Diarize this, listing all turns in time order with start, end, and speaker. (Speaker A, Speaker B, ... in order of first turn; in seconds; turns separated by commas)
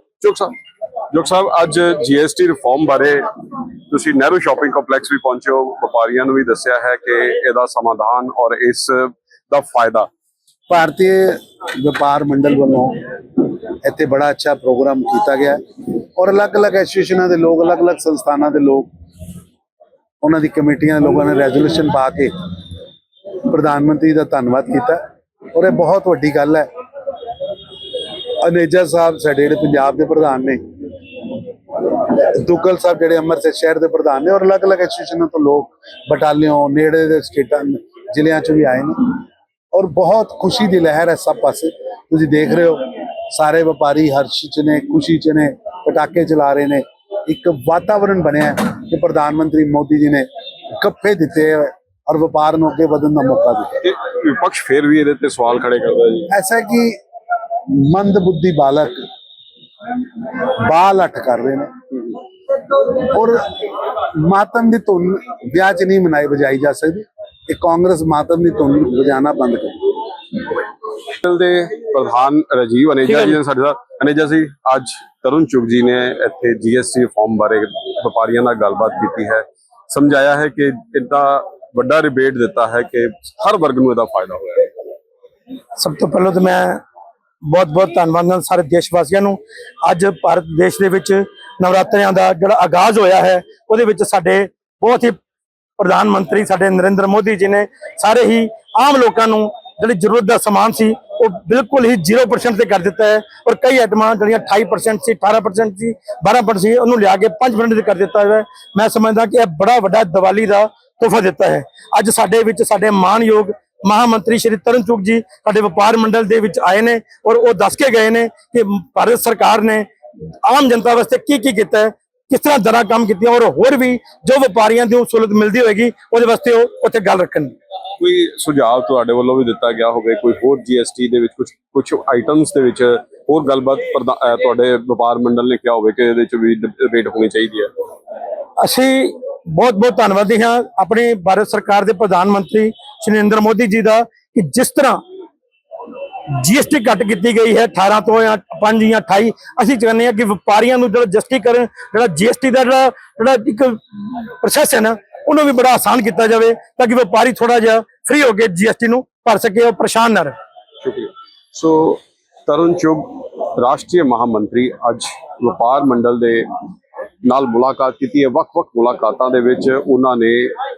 Speaker A: 0.2-0.6, Speaker A: 1.1-3.3, Speaker A: 3.9-10.1, Speaker B: 10.7-13.0, Speaker B: 13.8-15.6, Speaker B: 16.2-18.9, Speaker B: 20.2-22.4, Speaker B: 23.5-25.0, Speaker B: 25.5-26.7, Speaker B: 28.4-30.6, Speaker B: 32.1-53.8, Speaker A: 53.8-56.3, Speaker B: 56.3-57.0, Speaker B: 57.7-59.1, Speaker B: 60.6-61.7, Speaker B: 62.9-69.9, Speaker A: 71.2-84.7, Speaker C: 85.8-86.8, Speaker C: 87.4-95.2, Speaker C: 95.8-119.9, Speaker C: 120.4-127.5, Speaker A: 128.0-137.7, Speaker C: 138.6-145.0, Speaker C: 146.3-160.3, Speaker A: 160.8-166.5, Speaker A: 167.2-170.6